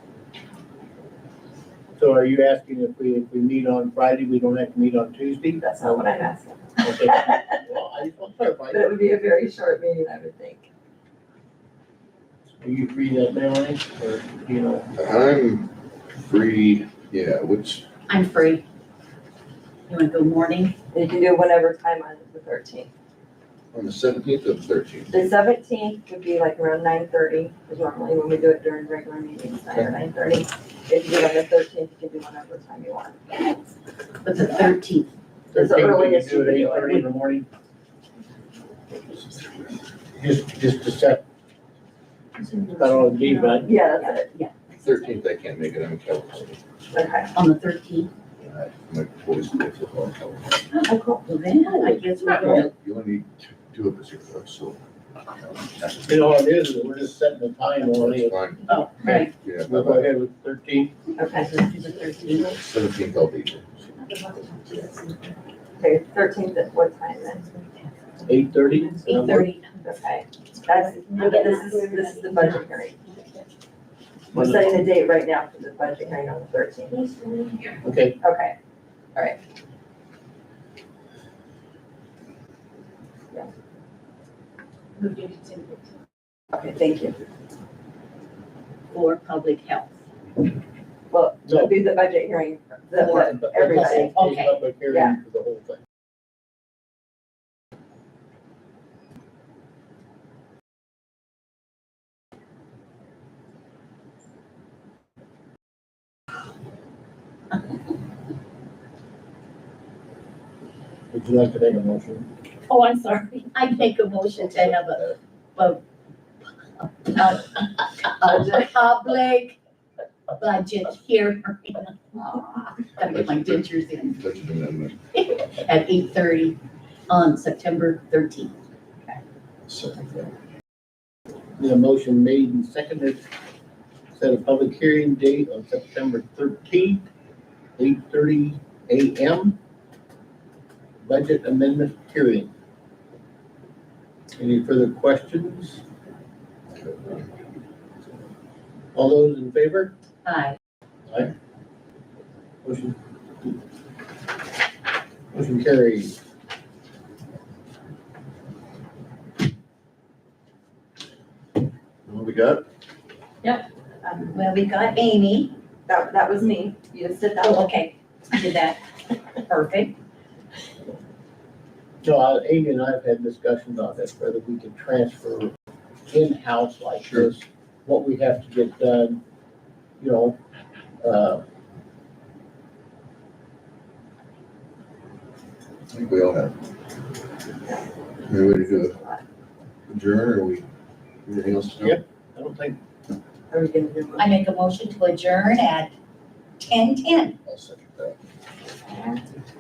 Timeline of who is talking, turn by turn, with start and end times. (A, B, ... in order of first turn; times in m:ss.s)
0:02.0-0:06.1 A
0:05.6-0:07.6 B
0:06.8-0:08.9 A
0:08.7-0:10.7 B
0:12.6-0:14.9 A
0:15.0-0:17.8 C
0:18.1-0:18.6 D
0:19.9-0:20.8 D
0:20.9-0:22.9 B
0:23.7-0:25.2 C
0:25.1-0:33.5 B
0:34.2-0:35.1 D
0:35.5-0:37.5 A
0:35.5-0:37.1 B
0:40.2-0:41.2 A
0:42.4-0:44.3 B
0:42.8-0:43.7 A
0:44.0-0:44.5 D
0:44.8-0:46.6 C
0:46.9-0:47.3 B
0:47.3-0:48.1 D
0:48.4-0:50.6 C
0:50.7-0:52.7 D
0:50.8-0:52.0 B
0:52.3-0:54.8 C
0:55.4-0:56.3 C
0:56.1-0:58.4 A
0:57.8-1:00.1 C
0:58.7-0:59.3 D
0:59.0-1:00.9 A
1:01.2-1:01.6 B
1:01.4-1:02.5 D
1:02.5-1:03.8 C
1:04.0-1:05.2 D
1:05.8-1:07.6 B
1:08.3-1:09.5 A
1:09.0-1:09.7 D
1:09.8-1:13.0 B
1:10.7-1:12.6 D
1:14.3-1:14.8 A
1:14.3-1:18.6 B
1:17.8-1:18.2 A
1:25.0-1:25.9 D
1:26.5-1:27.2 B
1:28.9-1:30.0 D
1:31.1-1:34.2 B
1:31.5-1:31.7 A
1:33.0-1:34.6 D
1:33.1-1:35.8 A
1:34.9-1:35.2 B
1:51.1-1:52.3 A
1:52.7-1:55.8 D
1:54.3-1:55.2 C
1:56.8-1:59.6 D
2:00.3-2:04.2 D
2:03.0-2:05.0 C
2:05.2-2:06.6 D
2:07.1-2:08.5 D
2:09.7-2:10.3 C
2:11.6-2:13.2 A
2:14.2-2:17.0 A
2:17.8-2:19.6 A
2:21.0-2:22.5 A
2:24.4-2:25.8 A
2:26.8-2:27.2 C
2:28.9-2:29.9 A
2:30.2-2:30.6 D
2:32.6-2:33.5 A
2:35.3-2:36.2 A
2:42.1-2:42.6 C
2:43.4-2:44.4 B
2:44.3-2:45.6 D
2:45.9-2:47.7 B
2:47.4-2:48.8 D
2:49.5-2:50.0 D
2:52.0-2:55.5 A
2:56.1-2:59.2 A
2:57.0-2:57.3 C
3:00.0-3:00.4 A
3:01.0-3:01.4 A
3:05.9-3:06.6 C
3:08.2-3:09.0 C
3:08.4-3:09.2 B
3:09.9-3:10.7 C
3:11.3-3:12.0 C
3:11.8-3:12.8 A
3:13.5-3:14.4 B
3:14.2-3:15.9 D
3:16.6-3:17.4 D
3:17.4-3:18.2 C
3:18.9-3:19.2 B